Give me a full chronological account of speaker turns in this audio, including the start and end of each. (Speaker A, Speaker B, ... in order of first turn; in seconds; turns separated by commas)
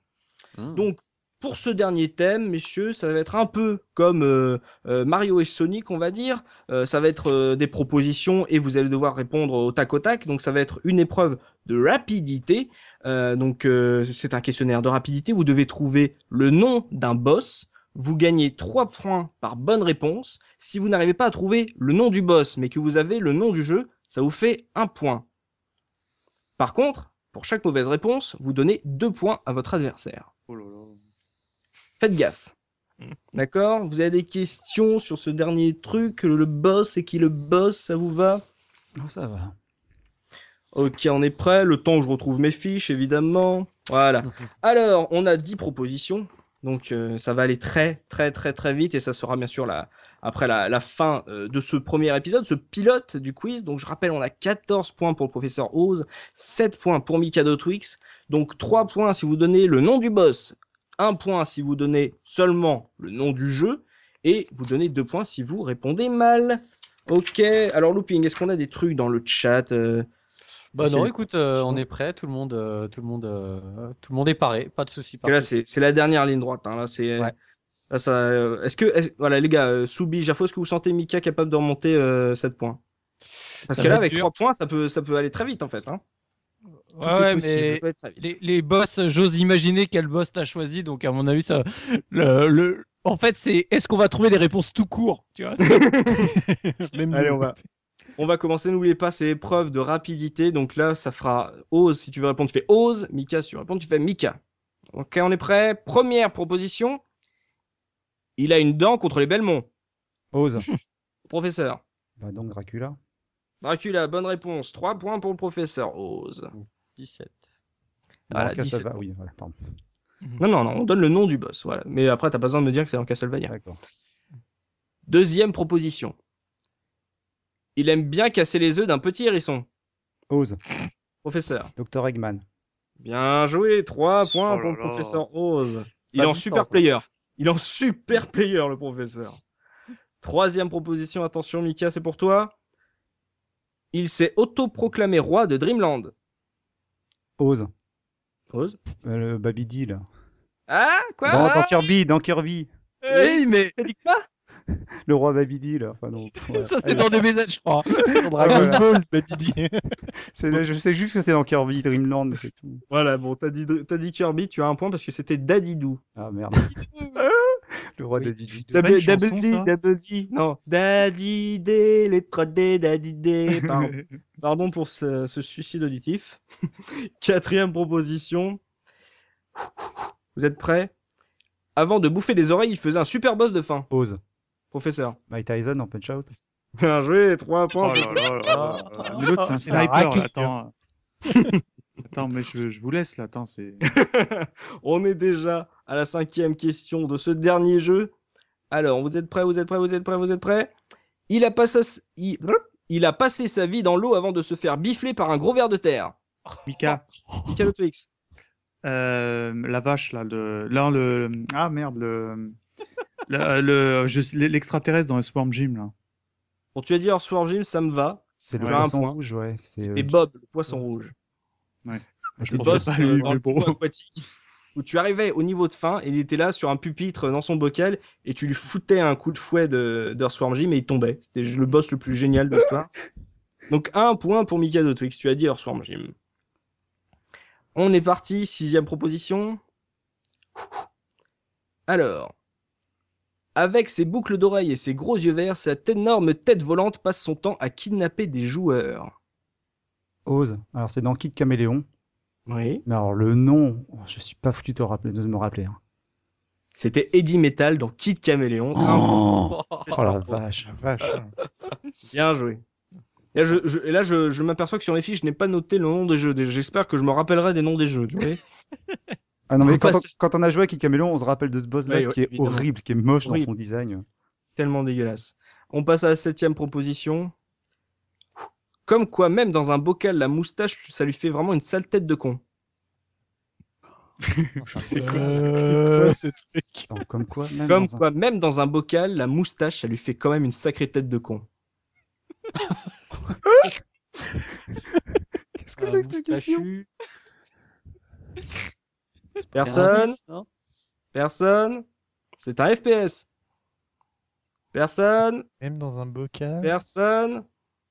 Speaker A: 0.6-0.9, Speaker B: 0.8-25.3, Speaker B: 26.6-30.3, Speaker C: 30.5-31.0, Speaker B: 32.0-32.5, Speaker B: 33.3-38.4, Speaker D: 39.0-39.6, Speaker B: 40.7-70.1, Speaker A: 70.8-75.5, Speaker B: 70.8-71.8, Speaker B: 75.2-77.3, Speaker B: 77.9-82.8, Speaker B: 83.7-86.0, Speaker E: 83.7-84.3, Speaker E: 86.9-95.9, Speaker B: 87.0-88.2, Speaker B: 95.6-96.3, Speaker F: 96.2-97.6, Speaker B: 97.1-97.6, Speaker B: 98.2-104.4, Speaker B: 104.9-107.0, Speaker B: 108.4-109.7, Speaker D: 110.3-110.7, Speaker B: 111.3-111.8, Speaker D: 112.2-113.0, Speaker B: 113.6-116.5, Speaker A: 116.5-117.4, Speaker B: 118.3-119.0, Speaker D: 118.3-119.6, Speaker B: 120.4-123.5, Speaker D: 123.5-123.8, Speaker B: 125.1-126.2, Speaker B: 127.8-129.7, Speaker D: 130.3-130.6, Speaker B: 131.2-131.7, Speaker D: 131.8-132.4, Speaker B: 133.0-139.4, Speaker C: 134.4-135.2, Speaker A: 136.1-136.8, Speaker B: 140.2-142.5, Speaker B: 143.9-146.1, Speaker D: 147.4-147.7, Speaker B: 148.5-148.8, Speaker D: 149.0-150.0, Speaker B: 150.7-151.9, Speaker D: 151.3-152.7, Speaker E: 153.0-153.8, Speaker B: 153.1-154.2, Speaker D: 155.1-157.1, Speaker E: 156.5-159.6, Speaker F: 158.1-159.9, Speaker D: 158.3-158.8, Speaker D: 160.3-162.8, Speaker B: 162.9-166.0, Speaker D: 166.2-168.9, Speaker B: 168.7-176.4, Speaker C: 168.8-169.7, Speaker C: 173.7-174.1, Speaker B: 177.2-178.6, Speaker B: 179.6-180.9, Speaker B: 181.8-183.9, Speaker D: 183.9-184.2, Speaker B: 184.7-185.2, Speaker D: 185.3-186.3, Speaker B: 186.8-188.7, Speaker C: 187.8-190.7, Speaker E: 189.0-190.1, Speaker F: 189.7-190.2, Speaker C: 192.1-193.8, Speaker B: 193.8-198.1, Speaker B: 198.7-200.7, Speaker B: 201.3-206.1, Speaker C: 206.7-207.1, Speaker B: 207.5-208.1, Speaker C: 208.8-212.6, Speaker C: 213.3-215.9, Speaker B: 216.8-219.2, Speaker D: 218.4-220.1, Speaker C: 218.6-218.9, Speaker B: 219.8-221.1, Speaker C: 221.9-223.8, Speaker D: 222.4-222.9, Speaker B: 222.5-224.2, Speaker B: 224.8-232.9, Speaker B: 233.7-236.1, Speaker B: 237.8-239.6, Speaker B: 241.9-242.3, Speaker B: 243.6-249.1, Speaker D: 250.3-251.9, Speaker B: 252.5-252.8, Speaker D: 252.9-255.8, Speaker B: 256.8-259.2, Speaker D: 258.8-260.7, Speaker A: 259.6-260.0, Speaker B: 259.8-260.2, Speaker F: 260.6-261.3, Speaker B: 262.1-262.6, Speaker B: 263.3-268.4, Speaker D: 269.5-274.0, Speaker B: 269.6-270.1, Speaker B: 271.9-272.7, Speaker B: 273.2-273.5, Speaker B: 274.6-277.3, Speaker B: 278.9-282.4, Speaker C: 284.3-284.7, Speaker F: 284.8-286.9, Speaker E: 284.9-286.2, Speaker D: 286.9-288.0, Speaker B: 287.7-291.5, Speaker D: 295.6-296.7, Speaker A: 295.8-296.9, Speaker B: 299.5-300.2, Speaker A: 299.6-300.5, Speaker D: 299.6-299.9, Speaker B: 301.1-301.8, Speaker B: 302.4-303.3, Speaker B: 304.7-305.5, Speaker F: 305.6-306.8, Speaker B: 306.6-307.4